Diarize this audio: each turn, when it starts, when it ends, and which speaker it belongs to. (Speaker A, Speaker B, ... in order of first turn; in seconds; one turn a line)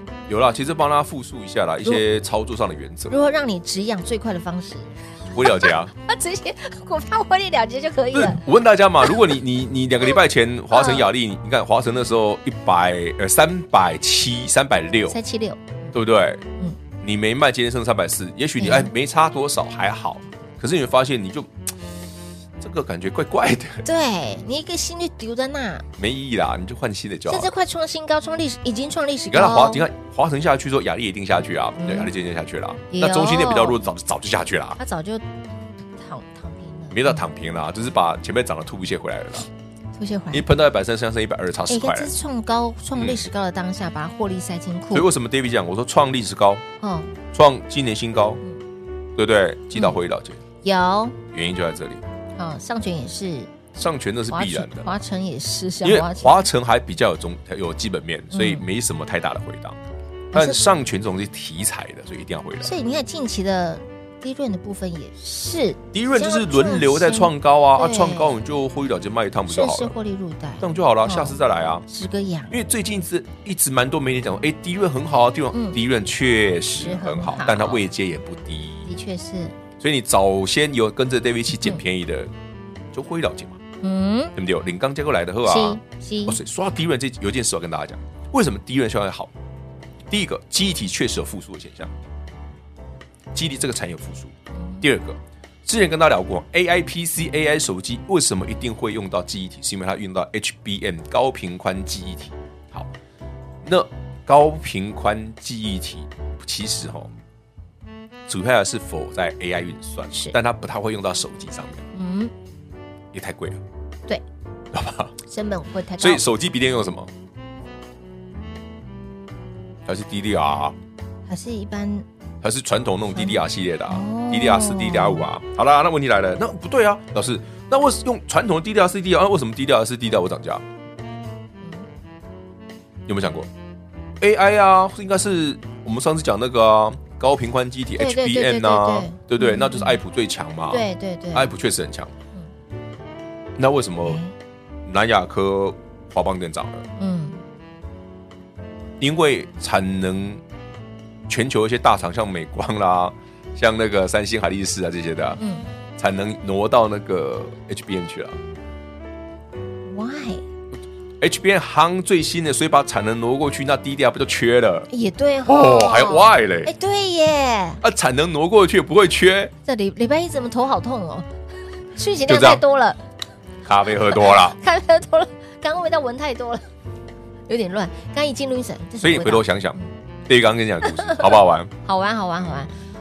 Speaker A: 0.3-3.2
Speaker B: 3.1-8.4
Speaker A: 5.3-5.9
Speaker A: 8.1-15.2
Speaker B: 10.7-11.1
Speaker B: 15.1-15.9
Speaker A: 15.9-16.4
Speaker A: 17.0-21.7
Speaker B: 18.6-18.9
Speaker A: 22.6-23.8
Speaker B: 23.8-25.8
Speaker A: 26.0-27.5
Speaker B: 27.3-29.9
Speaker A: 29.3-34.8
Speaker B: 31.8-32.1
Speaker B: 32.9-33.8
Speaker B: 34.8-35.2
Speaker B: 36.0-37.2
Speaker A: 36.9-39.5
Speaker B: 40.0-40.4
Speaker A: 40.3-42.1
Speaker B: 41.7-45.1
Speaker A: 43.0-43.2
Speaker A: 44.9-46.6
Speaker B: 46.8-47.1
Speaker A: 47.3-48.4
Speaker A: 49.1-50.4
Speaker B: 50.6-51.2
Speaker A: 51.3-52.0
Speaker B: 52.4-53.5
Speaker A: 53.7-54.9
Speaker B: 54.3-56.4
Speaker A: 55.8-59.8
Speaker B: 58.3-58.6
Speaker B: 60.3-60.7
Speaker A: 60.3-62.7
Speaker B: 62.6-68.3
Speaker A: 65.9-69.9
Speaker B: 69.5-72.5
Speaker A: 70.6-71.8
Speaker A: 72.5-78.9
Speaker B: 75.5-75.8
Speaker B: 76.8-77.8
Speaker B: 78.9-79.5
Speaker A: 79.8-82.3
Speaker A: 82.9-83.6
Speaker B: 83.8-84.3
Speaker A: 84.3-89.3
Speaker B: 85.4-86.4
Speaker A: 90.1-91.9
Speaker A: 93.3-102.9
Speaker B: 94.5-94.8
Speaker A: 103.6-107.1
Speaker A: 108.3-111.8
Speaker B: 111.9-112.3
Speaker A: 113.1-113.6
Speaker A: 114.7-115.1
Speaker B: 115.2-116.2
Speaker A: 116.0-117.1
Speaker A: 119.8-120.8
Speaker B: 121.3-122.0
Speaker A: 122.4-130.6
Speaker B: 123.1-125.3
Speaker A: 133.1-133.5
Speaker A: 134.2-142.1
Speaker B: 138.0-140.0
Speaker B: 140.7-141.5
Speaker A: 143.6-144.2
Speaker B: 144.0-144.3
Speaker A: 144.8-146.9
Speaker B: 147.0-147.4
Speaker A: 149.0-150.4
Speaker A: 151.3-155.4
Speaker B: 155.4-155.7
Speaker A: 156.0-158.4
Speaker B: 159.9-160.4
Speaker A: 161.2-164.9
Speaker B: 164.9-167.8
Speaker A: 165.4-166.7
Speaker A: 167.8-169.5
Speaker B: 169.6-171.3
Speaker B: 171.9-173.0
Speaker A: 172.3-172.6
Speaker A: 173.6-174.6
Speaker B: 174.1-176.6
Speaker B: 177.5-179.8
Speaker A: 179.0-181.7
Speaker B: 180.9-182.7